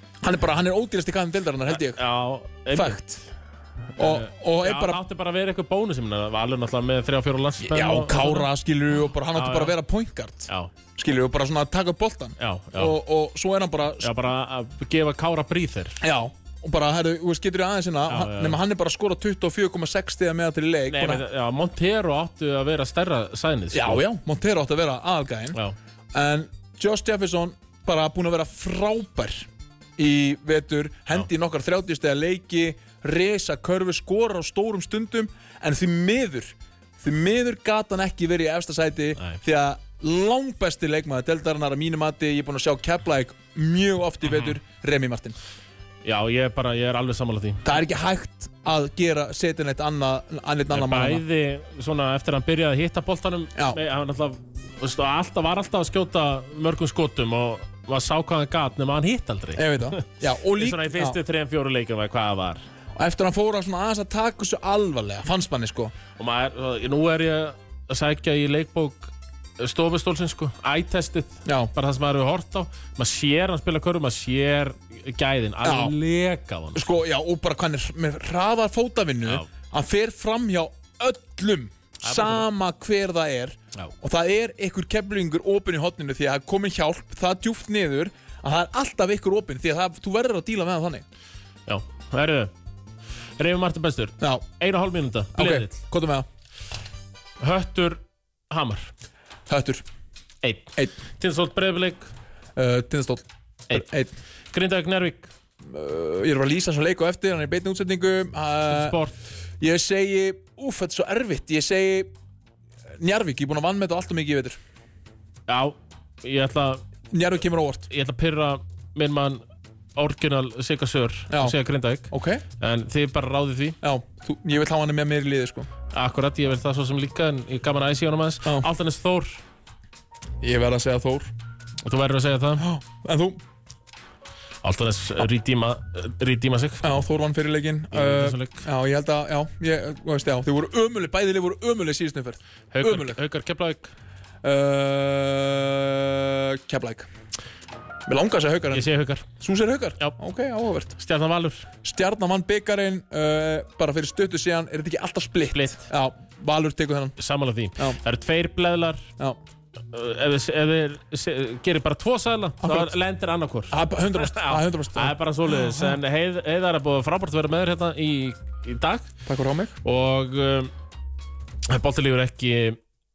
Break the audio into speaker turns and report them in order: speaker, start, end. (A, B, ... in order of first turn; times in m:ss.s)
0:00.2-0:02.0 A
0:01.7-0:03.0 B
0:02.7-0:03.2 A
0:04.0-0:05.0 A
0:04.0-0:08.5 B
0:07.6-0:14.1 A
0:09.3-0:09.8 B
0:12.4-0:13.0 B
0:14.0-0:16.0 B
0:16.0-0:21.2 A
0:18.1-0:18.6 B
0:20.9-0:24.0 B
0:23.7-0:25.6 A
0:26.1-0:45.4 A
0:44.3-0:44.5 B
0:46.0-0:47.8 B
0:47.6-0:51.2 A
0:50.7-1:02.6 B
0:59.6-1:01.2 A
1:03.0-1:05.9 A
1:06.2-1:16.9 B
1:11.4-1:11.7 A
1:15.6-1:16.0 A
1:16.7-1:31.0 A
1:22.0-1:22.4 B
1:31.7-1:32.5 B
1:33.4-1:35.8 B
1:34.2-1:34.4 A
1:35.3-1:36.3 A
1:37.4-1:38.9 B
1:39.5-1:39.8 A
1:40.4-1:42.1 B
1:42.6-1:44.1 A
1:44.5-1:45.3 B
1:45.6-1:49.0 A
1:48.7-1:49.2 B
1:49.6-1:52.1 A
1:53.0-1:54.6 A
1:55.5-1:56.8 B
1:57.1-1:57.9 A
1:57.9-1:59.4 B
2:00.0-2:03.8 B
2:01.3-2:01.6 A
2:02.1-2:02.4 A
2:03.8-2:05.7 A
2:05.9-2:09.4 B
2:10.4-2:11.3 A
2:11.8-2:12.6 B
2:12.6-2:13.4 A
2:14.6-2:16.8 B
2:16.8-2:23.2 A
2:17.9-2:18.6 B
2:22.7-2:23.9 B
2:24.4-2:27.1 A
2:28.1-2:28.9 A
2:28.7-2:29.3 B
2:29.4-2:31.0 A
2:31.0-2:31.7 B
2:31.8-2:37.1 A
2:35.5-2:35.8 B
2:37.2-2:39.0 B
2:39.9-2:49.1 B
2:42.6-2:42.9 A
2:43.7-2:46.0 A
2:49.2-2:49.8 A
2:49.8-2:50.7 B
2:51.7-2:52.8 B